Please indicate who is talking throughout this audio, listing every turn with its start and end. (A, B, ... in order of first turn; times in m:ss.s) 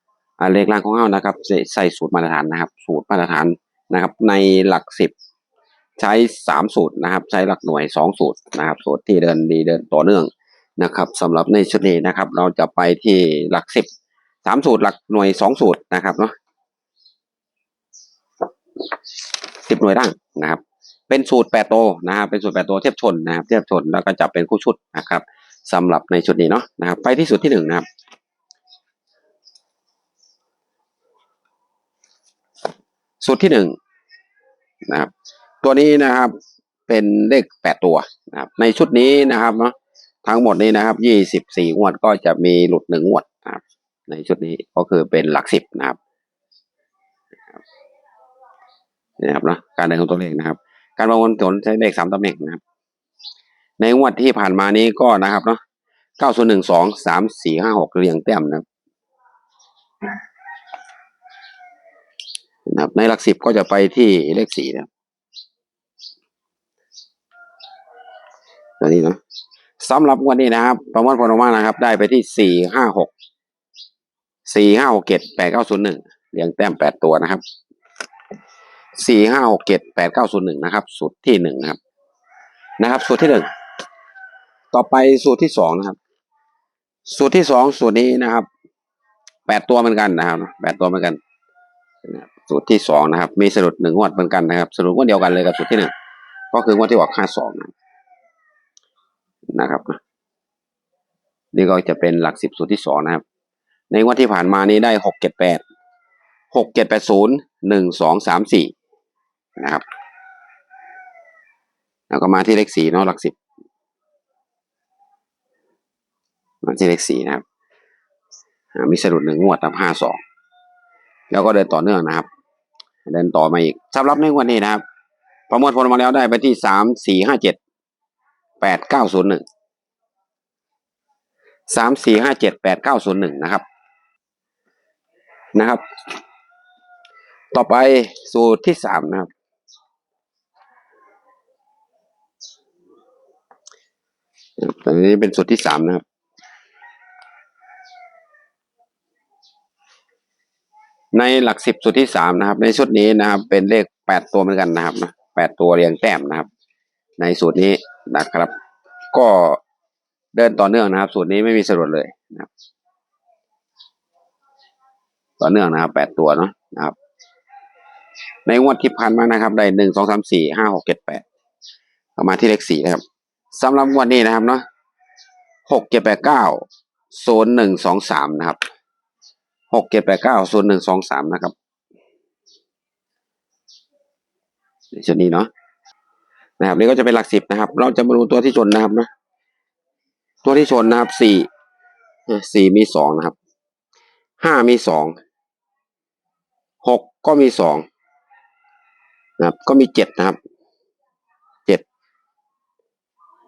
0:00.4-0:05.1 A
0:06.0-0:13.9 A
0:14.4-0:16.3 A
0:19.6-0:27.9 A
0:33.2-0:33.8 A
0:34.9-0:35.1 A
0:35.6-0:36.3 A
0:36.9-0:39.7 A
0:40.2-0:46.0 A
0:49.2-0:52.6 A
0:53.8-0:55.6 A
0:56.2-0:58.6 A
1:02.7-1:04.9 A
1:08.8-1:09.2 A
1:09.8-1:13.1 A
1:14.4-1:17.4 A
1:19.0-1:21.8 A
1:22.8-1:23.5 A
1:24.7-1:26.0 A
1:27.1-1:28.5 A
1:29.5-1:31.2 A
1:32.0-1:35.9 A
1:36.5-1:37.7 A
1:39.5-1:40.0 A
1:41.5-1:43.2 A
1:43.9-1:45.6 A
1:46.5-1:48.7 A
1:49.6-1:49.8 A
1:52.1-1:53.3 A
1:56.6-1:57.4 A
1:58.8-2:00.2 A
2:01.3-2:02.2 A
2:03.1-2:04.8 A
2:05.5-2:07.6 A
2:08.6-2:09.4 A
2:11.7-2:13.6 A
2:15.5-2:15.8 A
2:17.5-2:19.3 A
2:24.6-2:26.0 A
2:31.1-2:36.5 A
2:37.2-2:38.5 A
2:39.1-2:39.6 A
2:40.3-2:42.5 A
2:45.4-2:47.0 A
2:48.5-2:51.2 A
2:52.2-2:54.6 A
2:55.7-2:58.6 A
2:59.7-3:01.5 A
3:04.9-3:05.5 A
3:06.6-3:09.1 A
3:10.4-3:11.5 A
3:12.3-3:13.3 A
3:14.4-3:15.2 A
3:16.8-3:17.8 A
3:19.4-3:20.4 A